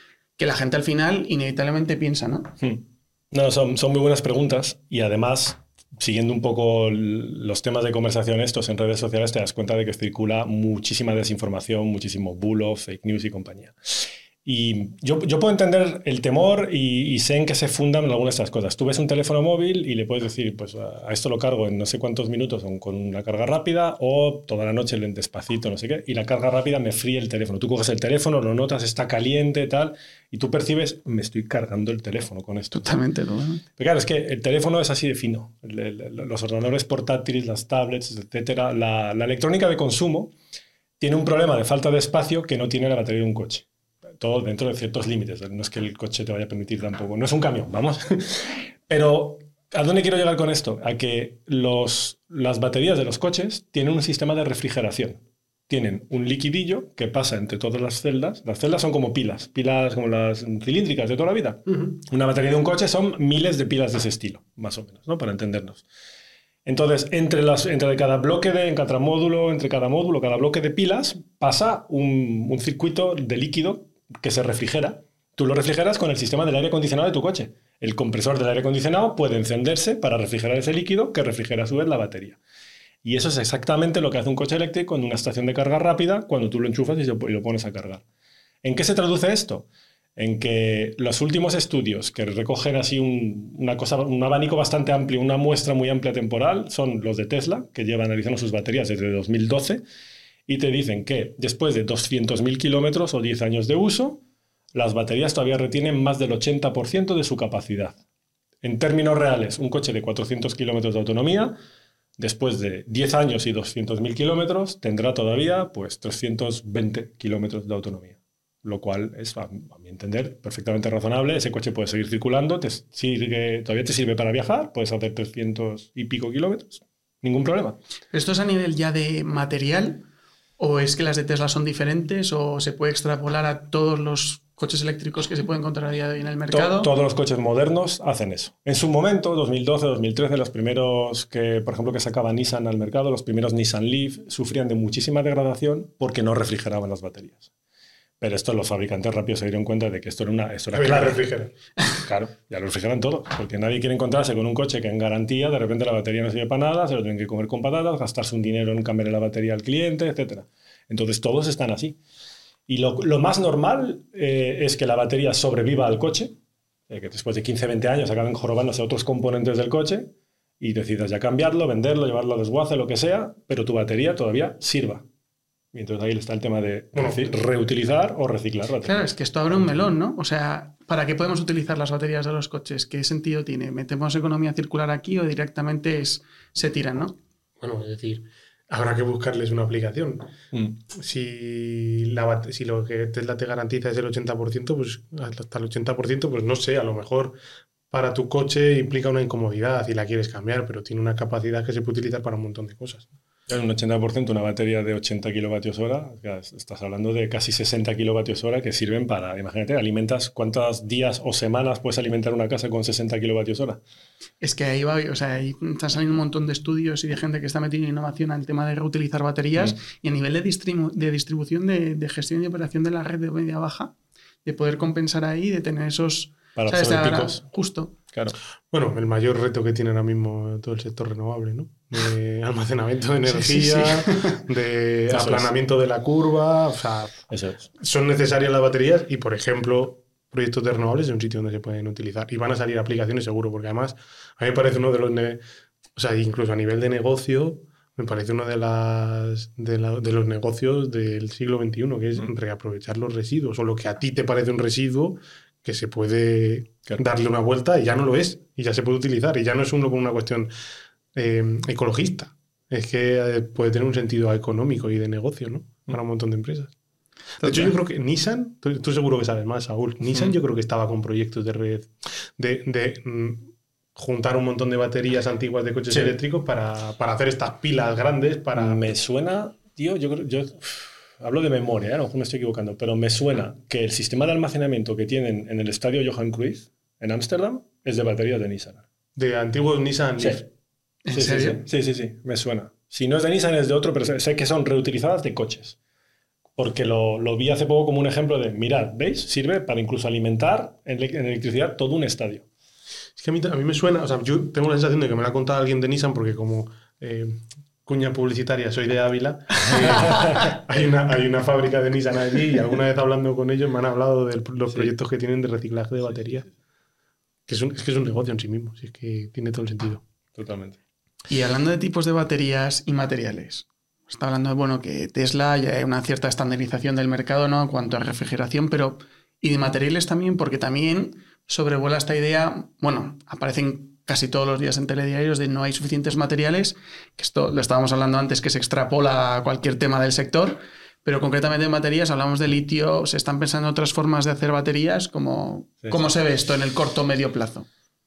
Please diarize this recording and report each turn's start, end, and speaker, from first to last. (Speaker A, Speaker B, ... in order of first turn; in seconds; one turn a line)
Speaker A: 0.4-2.5
Speaker B: 2.6-13.7
Speaker B: 14.4-33.0
Speaker A: 32.7-33.6
Speaker B: 33.8-40.3
Speaker B: 41.0-43.6
Speaker B: 44.2-65.8
Speaker B: 66.7-82.4
Speaker B: 83.0-88.0
Speaker B: 88.6-99.8
Speaker B: 100.5-104.2
Speaker B: 104.7-108.0
Speaker B: 108.6-111.5
Speaker B: 112.2-127.8
Speaker A: 128.1-130.0
Speaker A: 130.6-136.9
Speaker B: 136.5-147.5
Speaker B: 148.2-151.2
Speaker C: 150.7-151.5
Speaker B: 152.0-162.0
Speaker B: 162.7-166.3
Speaker B: 166.9-175.0
Speaker B: 175.7-179.7
Speaker C: 176.9-177.4
Speaker A: 178.8-187.2
Speaker C: 187.6-190.3
Speaker B: 190.5-190.8
Speaker C: 190.9-197.4
Speaker C: 197.9-203.1
Speaker B: 203.5-213.8
Speaker A: 214.4-223.9
Speaker A: 224.4-227.9
Speaker B: 226.6-227.4
Speaker C: 228.7-237.2
Speaker A: 233.3-234.4
Speaker B: 235.1-235.5
Speaker B: 237.3-237.7
Speaker C: 237.8-245.4
Speaker C: 245.9-260.5
Speaker C: 261.1-266.7
Speaker C: 267.4-278.8
Speaker B: 275.9-276.1
Speaker B: 278.5-288.8
Speaker C: 289.1-290.5
Speaker A: 291.0-291.6
Speaker B: 291.1-295.8
Speaker B: 296.6-302.4
Speaker C: 303.1-316.5
Speaker B: 309.7-310.4
Speaker C: 317.5-320.0
Speaker B: 320.4-320.8
Speaker A: 321.3-347.7
Speaker B: 345.8-346.1